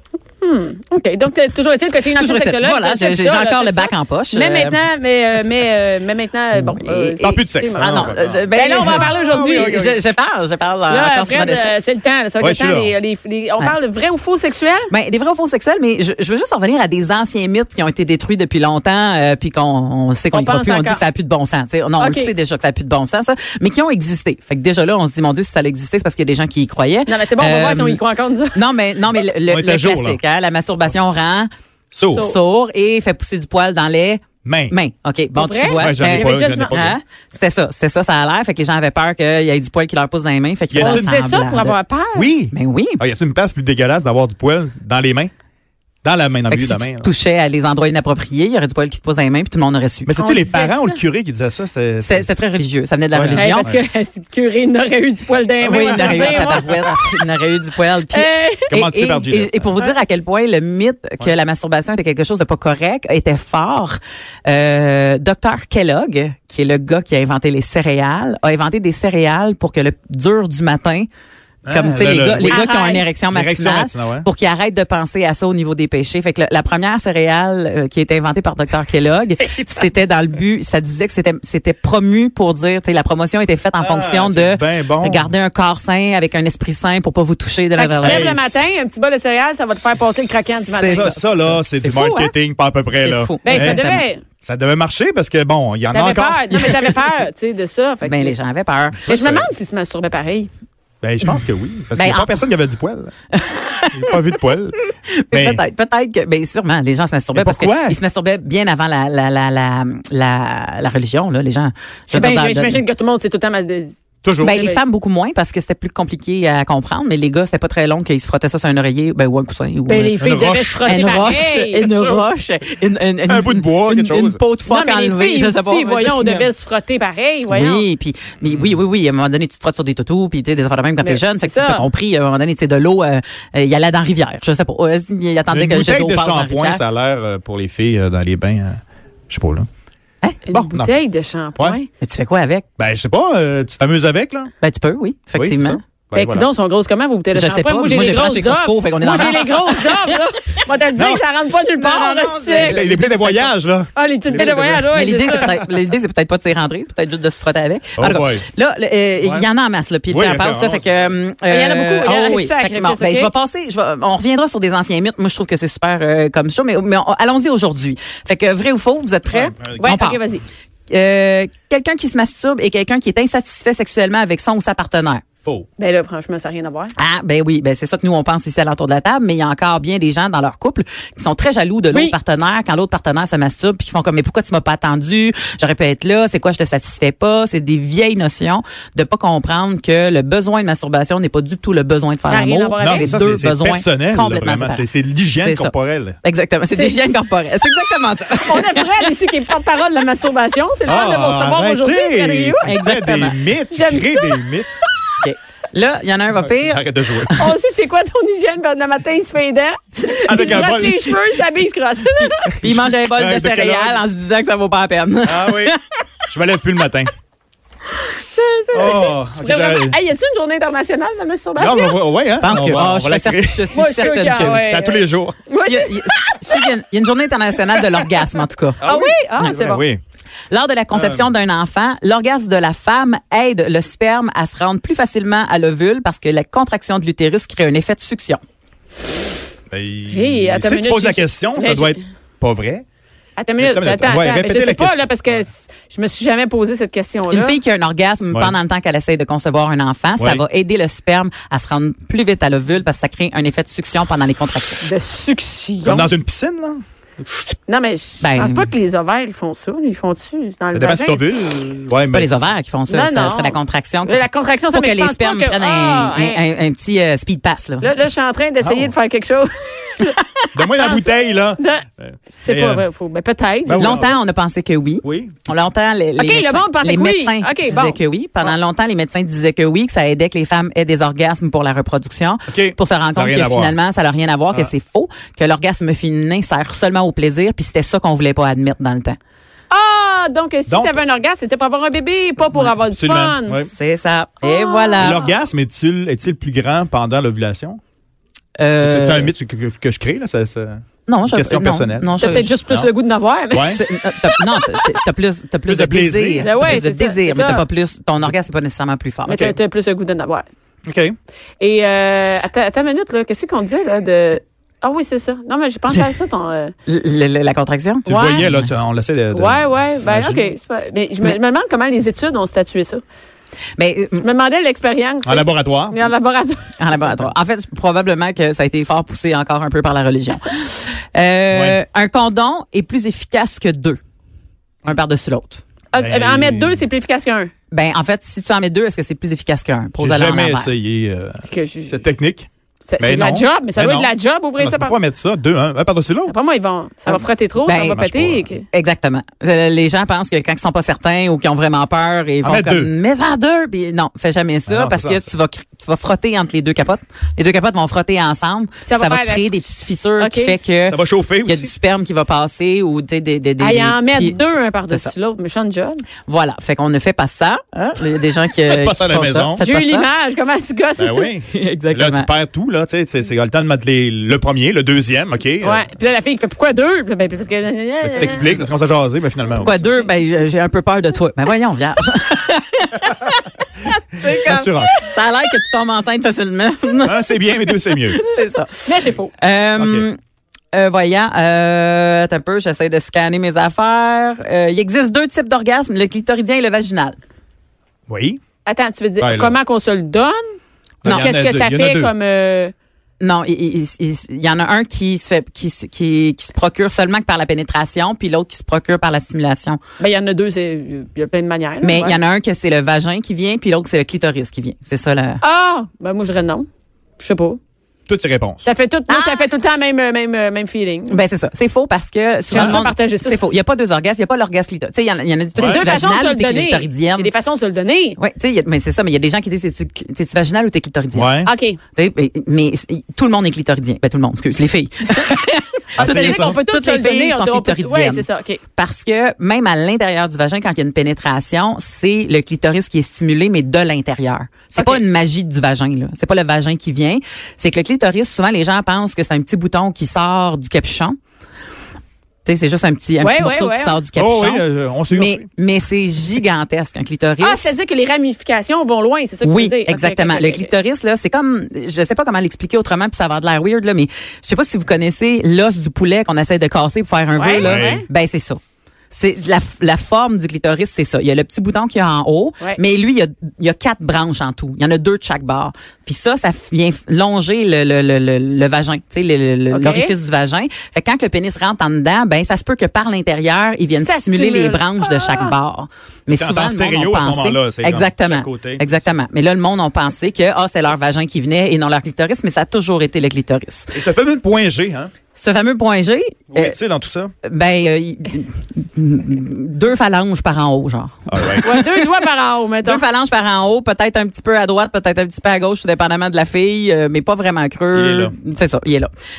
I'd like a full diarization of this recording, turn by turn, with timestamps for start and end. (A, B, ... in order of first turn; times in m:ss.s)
0:00.4-0:09.8 A
0:02.1-0:04.8 B
0:06.6-0:11.8 B
0:07.2-0:10.0 C
0:10.9-0:14.9 A
0:12.4-0:13.0 C
0:14.9-0:28.0 B
0:20.3-0:21.0 A
0:22.0-0:22.3 A
0:27.1-0:28.6 A
0:28.5-0:31.5 B
0:29.5-0:30.2 C
0:31.9-0:32.3 C
0:32.1-0:41.8 B
0:34.4-0:34.8 C
0:35.4-0:36.8 A
0:35.8-0:37.0 C
0:40.7-0:41.2 C
0:40.8-0:42.3 A
0:42.2-0:45.3 C
0:42.5-0:43.0 B
0:46.0-0:47.1 C
0:46.5-0:50.1 B
0:50.1-0:52.3 C
0:50.2-0:51.0 A
0:52.0-0:53.7 B
0:53.1-0:53.8 C
0:53.3-0:57.0 A
0:55.6-1:11.1 B
0:55.9-0:56.8 C
0:58.1-0:58.7 A
0:58.7-0:59.7 C
1:11.6-1:12.6 C
1:11.7-1:28.4 B
1:12.5-1:13.1 A
1:13.3-1:14.3 C
1:23.8-1:25.3 C
1:27.8-1:31.1 A
1:28.0-1:28.6 C
1:30.6-1:32.3 B
1:30.8-1:33.8 C
1:33.0-1:34.0 B
1:33.4-1:34.2 A
1:34.4-1:37.0 C
1:35.9-1:38.4 A
1:36.5-1:37.0 B
1:38.0-1:39.4 B
1:39.0-1:40.5 A
1:39.1-1:39.5 C
1:41.0-1:43.1 C
1:42.0-1:42.3 B
1:43.3-1:44.3 B
1:43.9-1:45.6 C
1:44.9-1:52.8 B
1:47.3-1:48.0 C
1:52.1-1:54.8 A
1:54.2-1:54.6 C
1:54.4-2:00.2 B
1:59.9-2:01.8 A
2:00.2-2:02.2 C
2:00.8-2:06.5 B
2:03.3-2:04.4 C
2:04.7-2:07.9 A
2:07.5-2:16.8 B
2:11.0-2:11.9 A
2:15.5-2:19.7 C
2:20.5-2:21.9 A
2:20.5-2:21.0 C
2:22.0-2:22.6 B
2:22.8-2:24.5 C
2:24.6-2:25.8 B
2:25.4-2:26.5 C
2:26.1-2:32.8 A
2:27.3-2:30.2 B
2:31.0-2:31.2 C
2:31.8-2:33.5 B
2:32.5-2:35.7 C
2:34.0-2:35.5 A
2:34.3-2:50.2 B
2:38.0-2:38.4 C
2:39.2-2:39.5 C
2:40.1-2:41.1 C
2:41.5-2:43.3 A
2:49.3-2:50.0 C
2:49.8-2:50.4 A
2:50.9-2:55.2 B
2:55.8-2:56.9 A
2:57.0-3:19.1 B
3:12.2-3:13.1 A
3:12.8-3:16.2 C
3:16.7-3:17.0 A
3:18.4-3:22.8 A
3:20.9-3:24.7 C
3:22.6-3:23.4 B
3:23.7-3:24.5 A
3:25.2-3:27.5 B
3:26.5-3:27.4 C
3:27.3-3:32.6 A
3:30.3-3:31.2 C
3:32.2-3:35.8 B
3:32.5-3:34.0 C
3:35.3-3:35.8 C
3:36.3-3:37.1 C
3:38.0-3:42.0 A
3:38.7-3:40.0 C
3:41.6-3:43.8 C
3:42.4-3:44.6 B
3:43.7-3:46.3 A
3:44.3-3:45.5 C
3:45.6-3:48.8 B
3:48.8-3:50.0 C
3:48.8-3:49.9 A
3:50.5-3:58.4 B
3:50.9-3:51.3 C
3:59.7-4:02.8 C
4:00.1-4:02.0 A
4:03.4-4:07.6 A
4:03.6-4:05.4 C
4:07.3-4:14.9 B
4:14.8-4:16.1 A
4:15.8-4:16.8 C
4:17.7-4:21.3 A
4:18.2-4:18.7 B
4:20.7-4:22.5 C
4:22.1-4:27.9 B
4:22.9-4:26.4 A
4:27.8-4:30.2 A
4:28.6-4:28.9 C
4:30.5-4:32.8 C
4:30.7-4:34.0 A
4:33.6-4:34.2 C
4:33.8-4:49.2 B
4:35.0-4:35.4 C
4:36.2-4:38.5 A
4:42.5-4:43.8 C
4:49.7-4:53.7 A
4:50.7-4:51.0 C
4:52.9-4:53.7 C
4:53.7-4:55.2 B
4:54.4-4:55.2 A
4:55.0-4:57.8 C
4:58.6-4:59.3 B
4:58.8-5:02.9 C
5:01.1-5:02.5 B
5:02.2-5:04.9 A
5:03.5-5:03.8 C
5:03.7-5:09.5 B
5:05.7-5:06.8 C
5:06.4-5:07.6 A
5:09.3-5:10.5 A
5:09.3-5:09.6 C
5:10.8-5:11.2 C
5:11.6-5:16.7 A
5:16.9-5:18.7 B
5:18.0-5:20.5 C
5:18.1-5:18.5 A
5:19.3-5:23.0 A
5:23.8-5:24.2 B
5:24.2-5:26.6 A
5:25.2-5:26.1 C
5:26.8-5:34.0 B
5:31.5-5:31.8 C
5:34.8-5:35.6 B
5:35.9-5:37.5 A
5:36.0-5:36.8 C
5:37.7-5:40.7 B
5:40.0-5:42.5 C
5:41.5-5:42.0 A
5:42.9-5:45.0 A
5:43.0-5:46.3 C
5:46.3-5:48.7 A
5:47.1-5:48.0 B
5:47.9-5:48.5 C
5:48.7-6:05.1 B
5:52.4-5:52.9 C
5:54.7-5:55.3 C
5:58.8-6:00.6 A
6:00.9-6:01.7 C
6:03.6-6:06.0 A
6:06.3-6:10.1 B
6:08.6-6:09.6 C
6:09.6-6:11.3 A
6:11.0-6:15.8 C
6:11.5-6:12.3 B
6:15.6-6:18.5 A
6:18.1-6:19.8 C
6:18.2-6:18.7 B
6:19.6-6:30.2 B
6:24.4-6:25.0 C
6:27.0-6:28.3 C
6:28.9-6:29.3 A
6:29.8-6:30.1 C
6:30.7-6:37.2 B
6:38.1-6:38.4 C
6:38.6-6:40.4 A
6:39.2-6:39.6 C
6:41.0-6:42.1 C
6:41.0-6:42.7 A
6:41.0-6:41.4 B
6:43.2-6:49.8 B
6:50.0-6:52.2 A
6:51.8-6:55.4 B
6:55.4-6:56.7 A
6:57.2-6:57.6 A
6:58.1-6:58.6 C
6:58.6-7:01.2 A
6:59.1-6:59.5 B
7:01.1-7:07.3 B
7:02.5-7:03.5 A
7:02.5-7:02.8 C
7:05.6-7:06.0 C
7:05.6-7:08.2 A
7:08.2-7:11.3 B
7:11.1-7:11.5 C
7:11.4-7:11.8 A
7:12.0-7:18.3 B
7:16.0-7:16.6 C
7:16.0-7:18.6 A
7:18.8-7:31.2 B
7:24.7-7:25.0 A
7:32.4-7:37.7 B
7:33.2-7:34.0 A
7:34.2-7:35.4 C
7:37.4-7:40.7 A
7:39.4-7:48.6 B
7:47.4-7:48.0 A
7:47.6-7:48.0 C
7:49.1-8:13.9 B
7:59.7-8:00.1 A
8:04.0-8:05.6 A
8:06.3-8:09.2 C
8:13.9-8:15.1 C
8:15.4-8:16.8 B
8:16.5-8:17.3 C
8:17.4-8:22.0 B
8:21.3-8:21.6 C
8:21.6-8:23.0 A
8:22.8-8:29.1 B
8:27.9-8:28.3 C